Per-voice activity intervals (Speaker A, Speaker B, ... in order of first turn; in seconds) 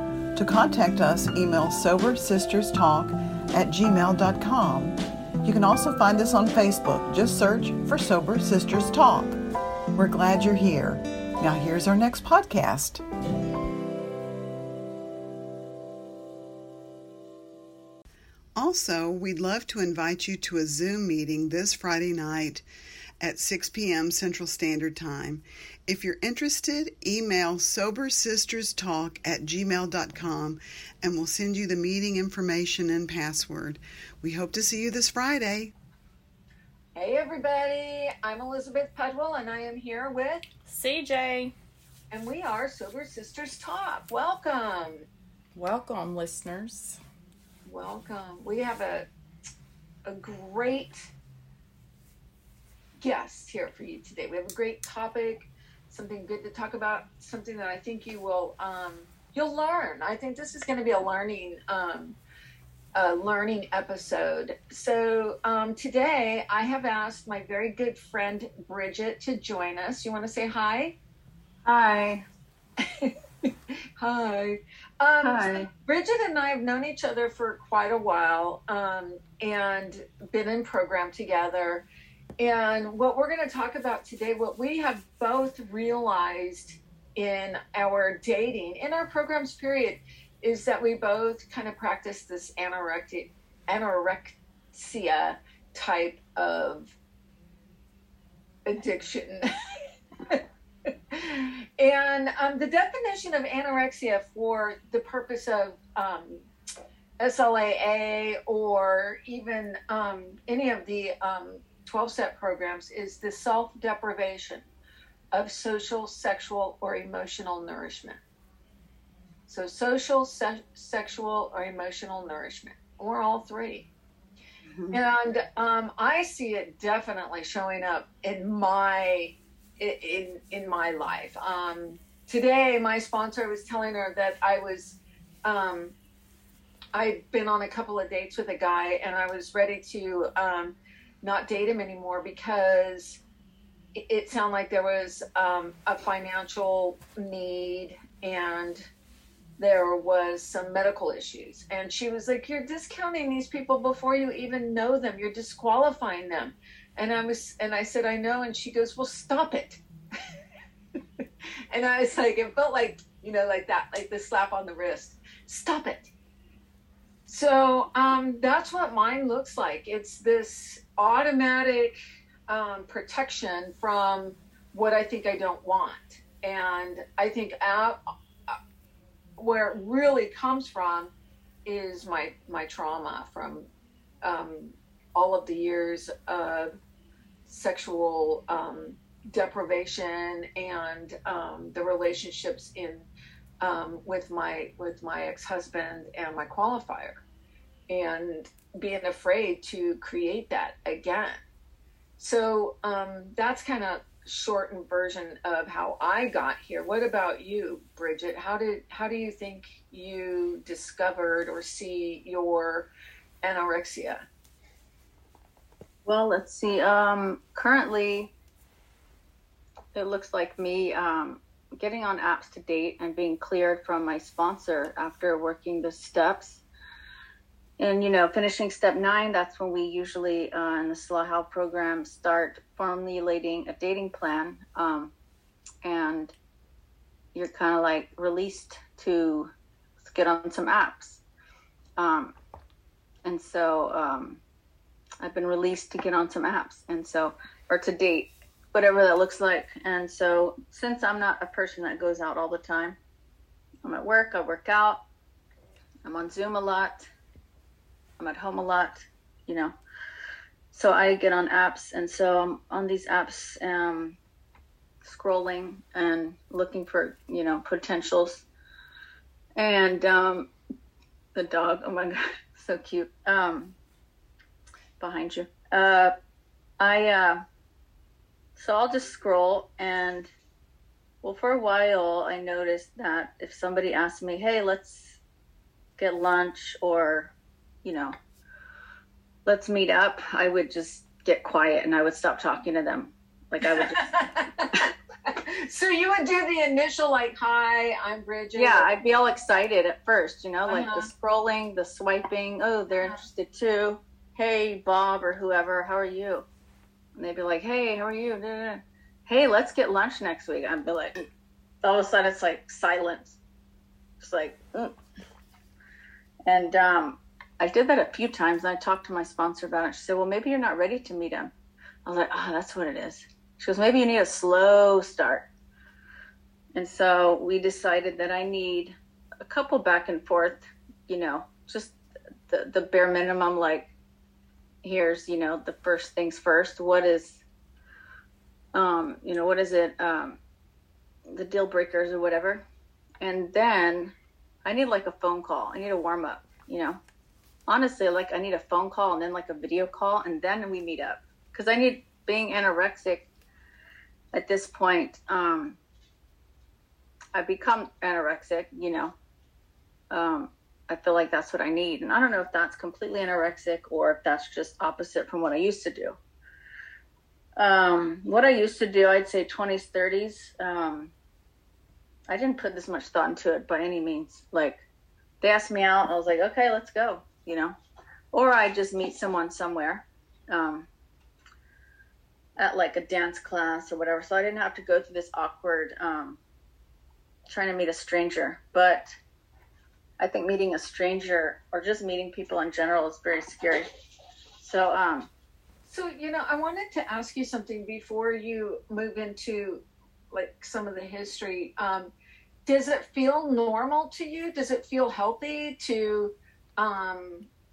Speaker A: 0.3-9.3, 9.9-13.0, 18.6-22.6, 23.2-35.7
Speaker B: 36.9-40.4, 42.1-45.0, 47.6-49.1, 50.1-51.1, 53.0-62.2, 62.9-71.0, 72.8-81.8, 82.4-96.9, 98.7-99.5, 101.1-106.5, 107.2-114.7, 115.3-118.2, 119.5-123.9, 124.9-135.9, 136.9-143.2, 143.9-148.9, 149.6-159.8, 161.2-166.1, 167.3-178.6, 179.4-181.1, 181.6-183.7, 184.2-186.7, 187.4-193.1, 193.6-197.2, 197.9-201.4, 202.2-212.9, 213.4-214.2, 293.6-298.9, 300.7-301.1, 395.9-402.1, 402.6-407.5
Speaker C: 40.6-41.5, 45.5-47.0
Speaker D: 71.6-72.2, 75.2-75.7, 124.6-125.0, 216.0-218.3, 219.9-226.6, 227.8-235.1, 235.8-236.3, 237.3-241.2, 242.0-242.3, 243.2-244.4, 245.2-253.0, 253.8-255.0, 256.0-257.1, 258.2-259.7, 260.7-264.2, 265.0-268.4, 269.6-270.5, 271.3-273.8, 275.0-276.1, 276.8-277.4, 278.6-280.3, 281.2-285.2, 286.0-288.1, 289.4-294.1, 298.5-306.5, 307.1-311.2, 311.8-313.4, 314.2-315.0, 316.4-321.5, 322.0-325.5, 326.7-332.0, 332.5-333.9, 334.8-337.4, 338.7-340.4, 341.3-342.6, 343.2-347.0, 347.7-353.3, 354.3-355.8, 357.3-359.1, 360.1-366.2, 367.6-371.1, 372.3-374.8, 375.4-377.8, 378.3-380.9, 382.6-386.4, 387.5-389.1, 390.2-393.9, 394.6-395.3